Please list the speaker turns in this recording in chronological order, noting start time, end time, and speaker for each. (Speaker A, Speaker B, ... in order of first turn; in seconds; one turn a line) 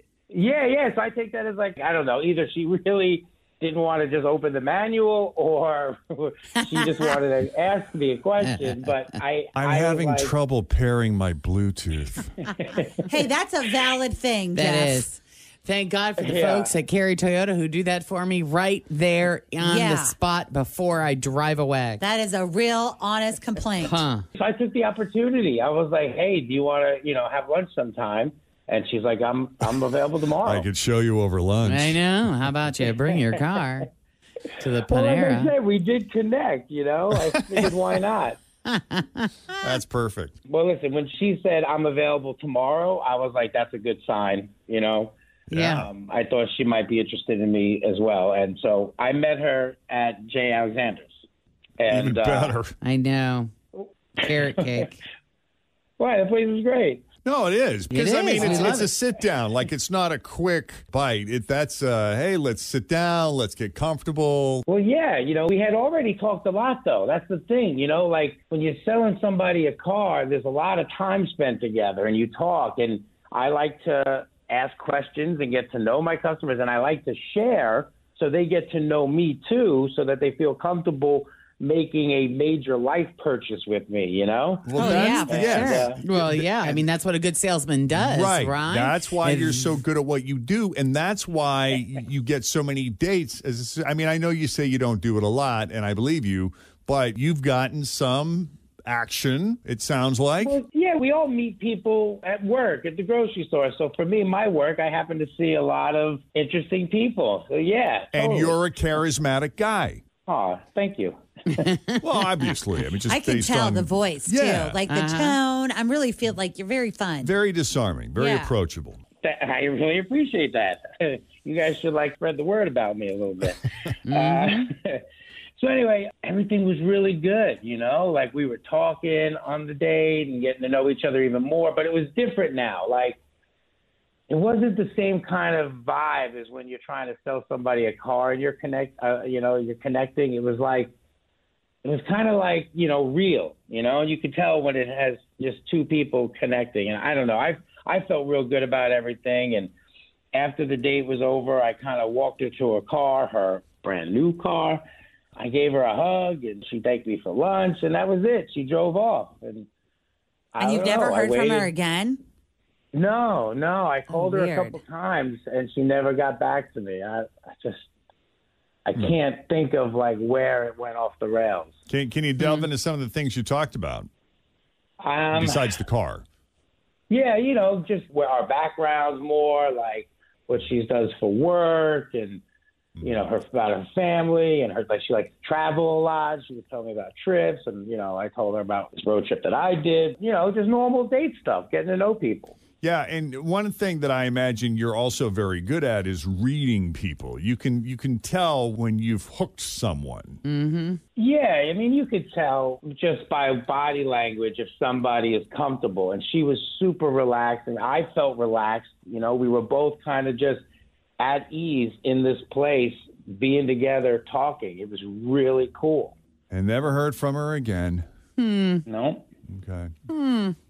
Speaker A: 0.3-10.3
Speaker B: 8.4-8.7
Speaker C: 9.6-12.3
Speaker A: 12.6-13.1
Speaker D: 13.1-15.1
Speaker B: 14.6-22.0
Speaker A: 16.2-16.7
Speaker D: 19.6-20.1
Speaker D: 22.0-24.0
Speaker B: 23.8-24.2
Speaker A: 24.4-30.7
Speaker C: 30.4-32.0
Speaker B: 31.7-33.9
Speaker B: 34.6-35.5
Speaker A: 34.9-38.4
Speaker B: 38.7-39.5
Speaker C: 39.6-40.4
Speaker A: 40.5-45.1
Speaker B: 45.5-45.9
Speaker C: 45.5-45.9
Speaker A: 45.7-51.2
Speaker A: 51.8-52.6
Speaker C: 51.9-52.7
Speaker B: 52.8-53.5
Speaker A: 53.8-54.9
Speaker B: 54.2-55.0
Speaker A: 56.0-57.0
Speaker C: 57.2-64.7
Speaker B: 57.9-58.9
Speaker A: 58.5-58.7
Speaker A: 64.7-86.0
Speaker C: 84.7-86.8
Speaker D: 84.8-85.9
Speaker B: 84.8-89.8
Speaker C: 87.9-100.6
Speaker A: 100.4-108.6
Speaker C: 108.1-110.0
Speaker A: 110.2-111.7
Speaker B: 111.5-112.0
Speaker C: 112.0-114.8
Speaker D: 113.1-117.3
Speaker B: 114.9-115.4
Speaker C: 117.2-119.0
Speaker D: 118.2-118.5
Speaker A: 119.2-125.0
Speaker B: 124.1-124.7
Speaker A: 125.6-133.2
Speaker A: 134.3-140.9
Speaker A: 141.8-149.7
Speaker A: 150.3-154.8
Speaker A: 155.4-159.7
Speaker A: 160.6-161.7
Speaker D: 160.6-162.2
Speaker A: 162.9-167.9
Speaker D: 164.1-164.8
Speaker A: 168.9-171.7
Speaker C: 171.9-174.1
Speaker A: 175.0-175.7
Speaker C: 175.3-176.2
Speaker A: 177.1-182.4
Speaker A: 183.0-192.6
Speaker C: 192.8-200.4
Speaker B: 200.4-201.0
Speaker A: 201.2-210.6
Speaker A: 211.2-216.2
Speaker C: 216.5-218.1
Speaker B: 218.4-218.8
Speaker A: 218.9-219.3
Speaker C: 219.5-219.9
Speaker B: 220.1-220.6